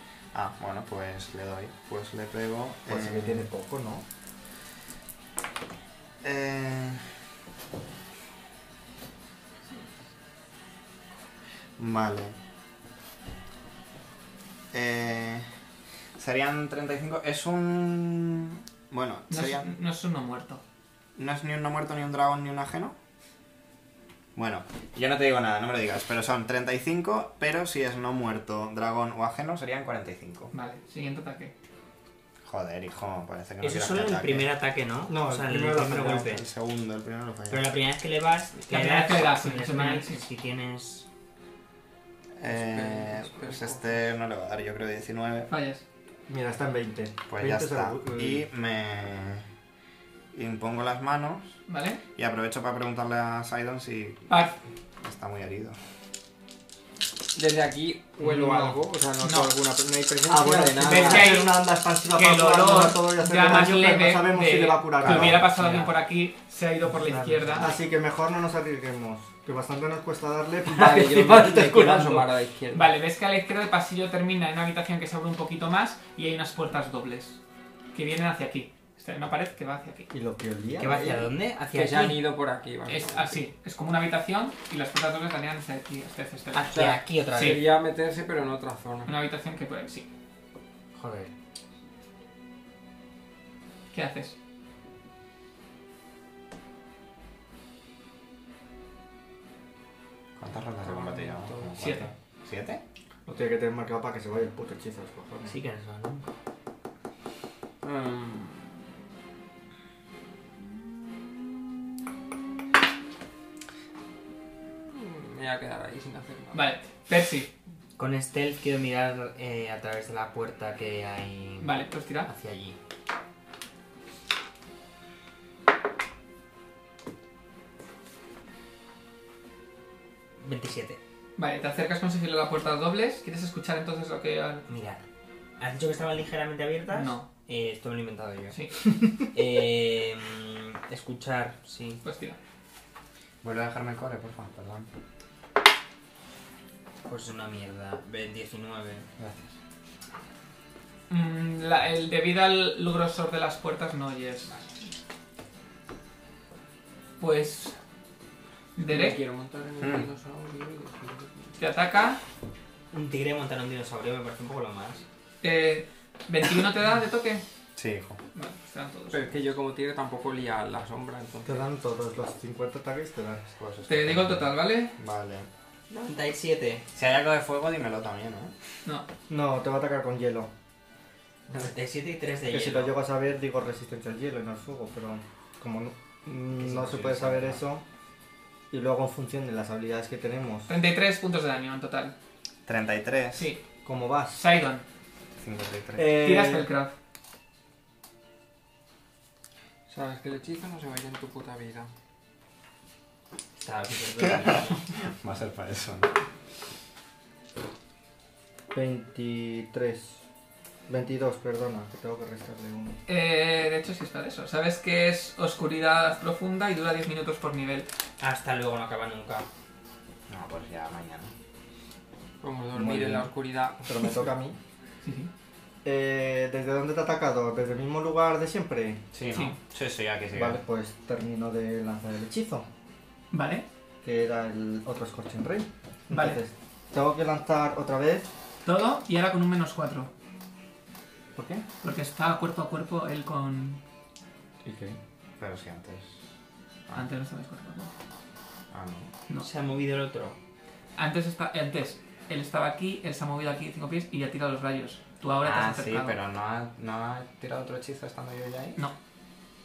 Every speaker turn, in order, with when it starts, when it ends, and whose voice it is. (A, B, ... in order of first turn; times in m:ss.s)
0:00.3-0:03.5 A
0:02.9-0:04.0 B
0:06.2-0:07.1 A
0:11.8-0:12.3 A
0:14.7-0:15.5 A
0:16.2-0:19.7 A
0:19.3-0:20.6 C
0:21.2-0:23.0 A
0:24.3-0:30.5 A
0:30.5-0:31.5 C
0:32.4-0:34.5 A
0:33.6-0:36.4 D
0:35.1-0:36.2 B
0:35.8-0:37.6 A
0:37.5-0:41.0 D
0:38.7-0:40.2 C
0:42.4-0:45.5 A
0:42.4-0:44.0 E
0:45.5-0:45.8 C
0:46.3-0:48.4 B
0:47.3-0:49.4 A
0:50.3-0:51.6 A
0:51.7-0:52.0 C
0:52.2-0:54.3 A
0:54.3-0:54.6 C
0:55.0-0:55.8 A
0:57.3-1:01.4 E
0:58.2-0:58.8 B
0:59.2-0:59.5 C
1:00.3-1:05.4 B
1:00.8-1:07.8 C
1:05.0-1:05.8 A
1:07.1-1:12.3 B
1:10.6-1:12.9 E
1:12.7-1:17.4 C
1:17.9-1:20.1 C
1:20.1-1:21.3 B
1:20.8-1:22.2 D
1:21.7-1:23.4 E
1:22.8-1:26.7 C
1:26.5-1:27.6 D
1:26.7-1:29.1 E
1:27.3-1:27.6 C
1:29.0-1:30.1 C
1:31.0-1:31.3 D
1:33.9-1:34.4 C
1:40.4-1:42.8 A
1:40.8-1:41.8 E
1:41.8-1:42.1 C
1:43.2-1:45.5 B
1:45.4-1:46.3 D
1:47.8-1:48.7 E
1:54.8-1:56.6 E
1:56.5-1:57.5 C
1:58.0-2:02.8 D
2:01.6-2:02.3 C
2:10.4-2:11.0 D
2:11.4-2:14.6 C
2:14.7-2:15.0 D
2:15.6-2:18.7 D
2:16.9-2:17.3 C
2:18.5-2:18.8 C
2:19.2-2:22.0 D
2:22.0-2:22.4 C
2:23.4-2:24.9 A
2:27.0-2:29.1 D
2:29.2-2:29.5 A
2:31.1-2:34.5 C
2:37.2-2:37.7 C
2:38.8-2:39.2 C
2:38.8-2:41.6 E
2:39.8-2:40.1 A
2:41.6-2:42.2 C
2:42.9-2:45.0 D
2:45.4-2:47.4 C
2:47.8-2:48.2 A
2:48.3-2:49.3 C
2:49.1-2:51.6 E
2:51.4-2:53.4 B
2:53.5-2:55.5 A
2:53.8-2:54.9 C
2:55.9-2:56.8 D
2:56.9-2:58.5 A
2:59.3-3:00.5 B
3:01.5-3:03.0 D
3:02.5-3:07.8 B
3:06.6-3:07.6 A
3:08.7-3:10.7 B
3:10.7-3:12.1 C
3:12.6-3:13.5 A
3:13.3-3:13.6 C
3:13.8-3:14.4 B
3:14.3-3:14.8 C
3:15.4-3:16.2 A
3:16.0-3:16.7 B
3:16.1-3:16.9 C
3:19.9-3:21.9 E
3:23.6-3:24.8 D
3:24.2-3:26.1 A
3:28.7-3:30.2 B
3:30.9-3:33.0 B
3:33.1-3:37.9 C
3:38.2-3:39.5 D
3:40.3-3:41.3 A
3:42.4-3:44.3 E
3:42.7-3:44.6 B
3:45.0-3:45.3 C
3:45.8-3:49.0 B
3:49.1-3:50.6 A
3:49.3-3:49.6 C
3:50.3-3:52.6 B
3:53.3-3:53.6 C
3:54.0-3:58.3 B
3:56.1-3:56.4 C
3:58.6-4:00.1 C
4:01.3-4:01.6 B
4:01.8-4:03.8 C
4:04.6-4:05.0 B
4:05.4-4:06.2 A
4:06.9-4:07.9 C
4:08.7-4:09.1 A
4:09.4-4:10.4 D
4:11.0-4:16.2 C
4:15.4-4:18.8 A